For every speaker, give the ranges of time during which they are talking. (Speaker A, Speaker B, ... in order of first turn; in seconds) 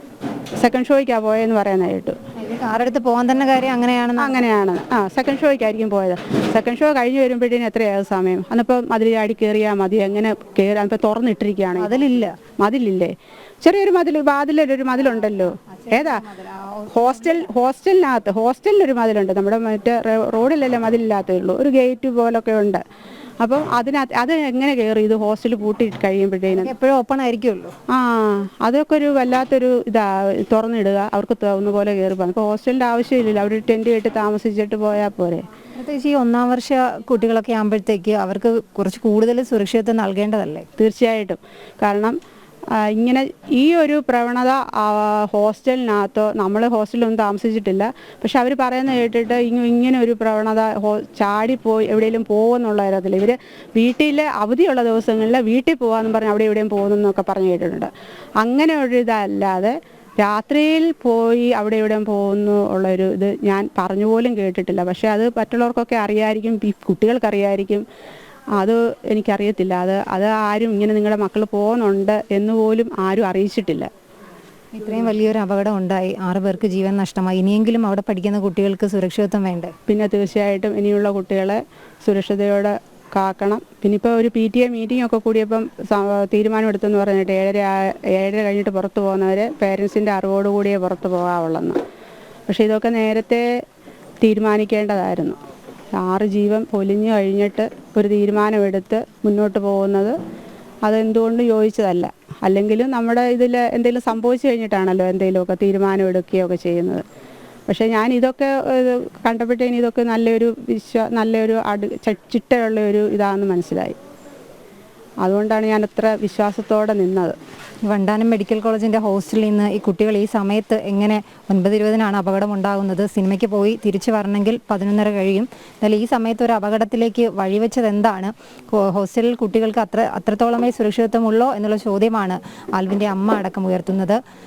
Speaker A: 0.6-2.2, 4.2-16.3, 16.9-22.8, 23.4-26.7, 27.9-35.5, 40.8-42.1, 42.7-57.9, 58.4-67.8, 68.5-73.9, 79.9-91.8, 92.5-93.5, 94.2-95.4, 96.0-100.1, 100.8-107.0, 107.7-114.0, 115.2-117.3
Speaker B: 2.4-4.4, 11.8-12.4, 15.7-17.5, 26.5-27.7, 35.8-40.7, 74.7-79.7, 117.8-134.2